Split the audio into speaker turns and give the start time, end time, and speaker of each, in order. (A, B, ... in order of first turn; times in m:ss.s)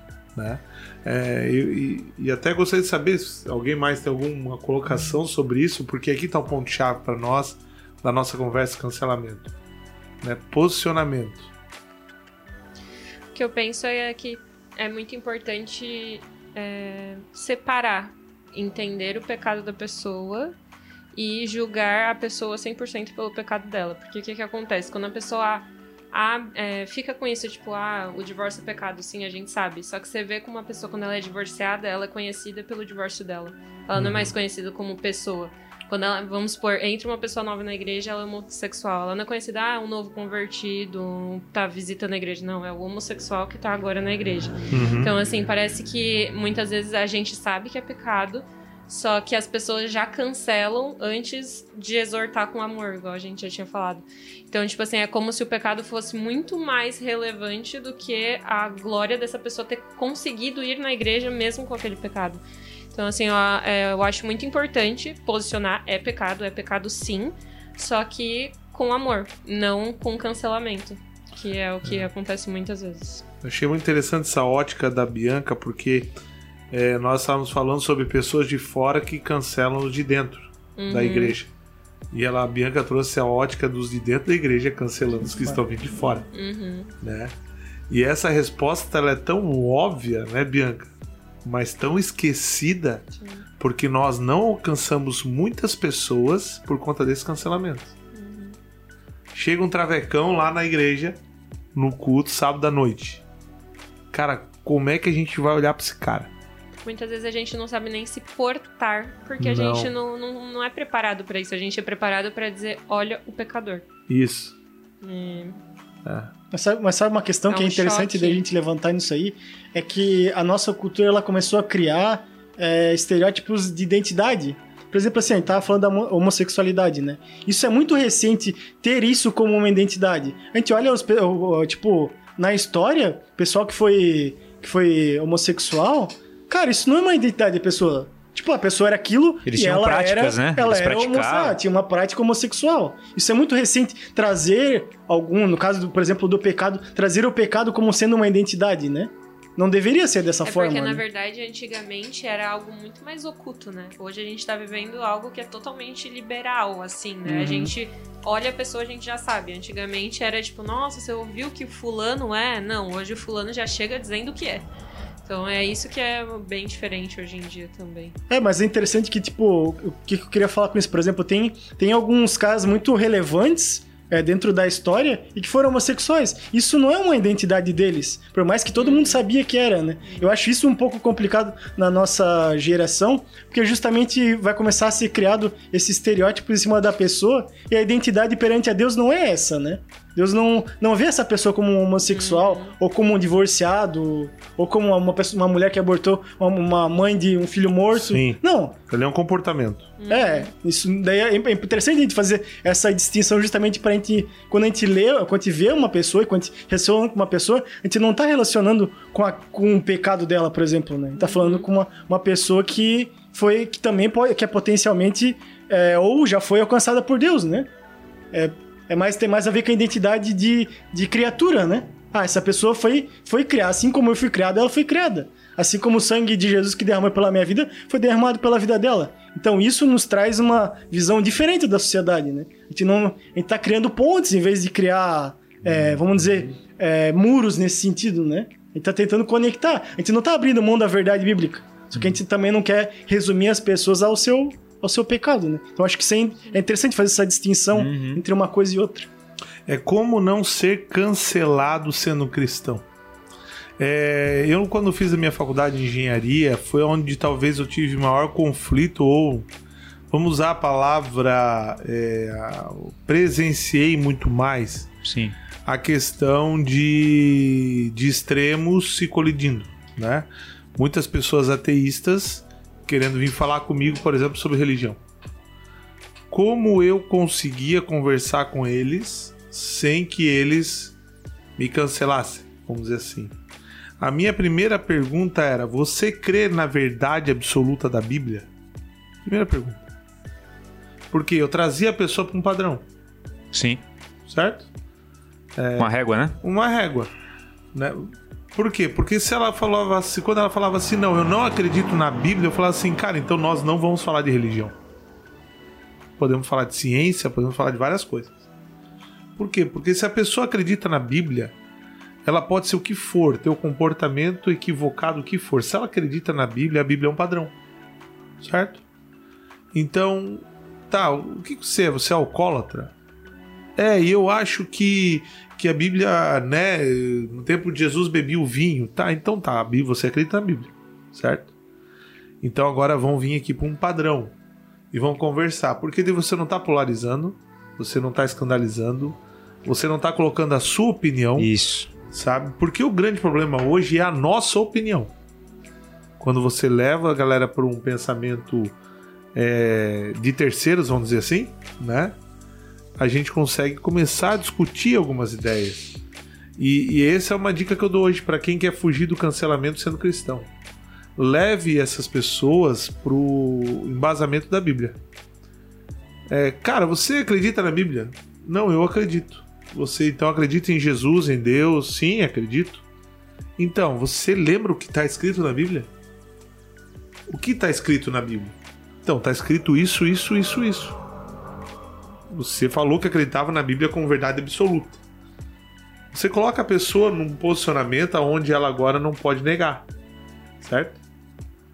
0:00.4-0:09.5 A
0:10.2-0:11.5 A
0:13.3-0:20.6 B
0:21.1-1:13.2 B
0:33.9-0:34.3 A
0:44.7-0:45.1 A
1:13.4-1:16.1 A
1:16.7-1:21.5 A
1:20.8-1:21.4 B
1:22.1-1:26.3 A
1:26.3-1:26.9 B
1:27.0-1:27.3 A
1:27.9-1:33.0 A
1:33.2-1:33.4 B
1:33.6-1:37.9 A
1:38.1-1:38.6 B
1:39.3-1:41.2 A
1:41.7-1:43.2 A
1:44.1-1:46.3 A
1:46.8-1:53.8 B
1:49.4-1:49.9 A
1:54.1-1:54.6 A
1:55.0-1:55.6 B
1:56.0-1:56.3 A
1:56.5-2:31.0 C
1:57.5-1:58.4 B
2:19.4-2:21.6 D
2:30.4-2:44.6 B
2:37.2-2:37.7 C
2:45.2-2:48.2 B
2:48.3-3:18.8 C
2:58.8-2:59.3 B
3:12.1-3:12.7 B
3:17.9-3:20.0 A
3:20.0-3:20.5 B
3:20.1-3:37.7 C
3:31.2-3:31.7 B
3:38.3-4:09.1 C
4:07.7-4:08.2 D
4:09.6-4:12.8 A
4:13.8-4:19.5 A
4:20.1-4:24.9 A
4:25.0-4:25.3 D
4:25.6-4:35.0 A
4:36.3-4:41.0 A
4:41.6-4:43.3 A
4:44.0-4:48.5 A
4:49.2-4:49.8 A
4:51.1-4:52.8 A
4:53.5-4:53.8 D
4:54.3-4:54.7 A
4:55.6-4:57.1 A
4:55.8-4:56.4 D
4:57.7-5:04.8 A
5:06.2-5:08.4 A
5:09.4-5:11.6 A
5:12.2-5:17.5 A
5:18.4-5:18.8 A
5:19.7-5:22.9 A
5:23.8-5:31.5 A
5:32.4-5:34.3 A
5:34.9-5:41.5 A
5:41.4-5:41.9 D
5:42.1-5:45.1 A
5:46.2-5:48.8 A
5:49.3-5:52.2 A
5:53.0-5:56.0 A
5:56.6-6:00.5 A
6:01.2-6:05.0 A
6:06.3-6:12.8 A
6:13.6-6:15.9 A
6:17.3-6:21.0 A
6:22.3-6:25.0 A
6:26.1-6:29.9 A
6:30.6-6:31.0 A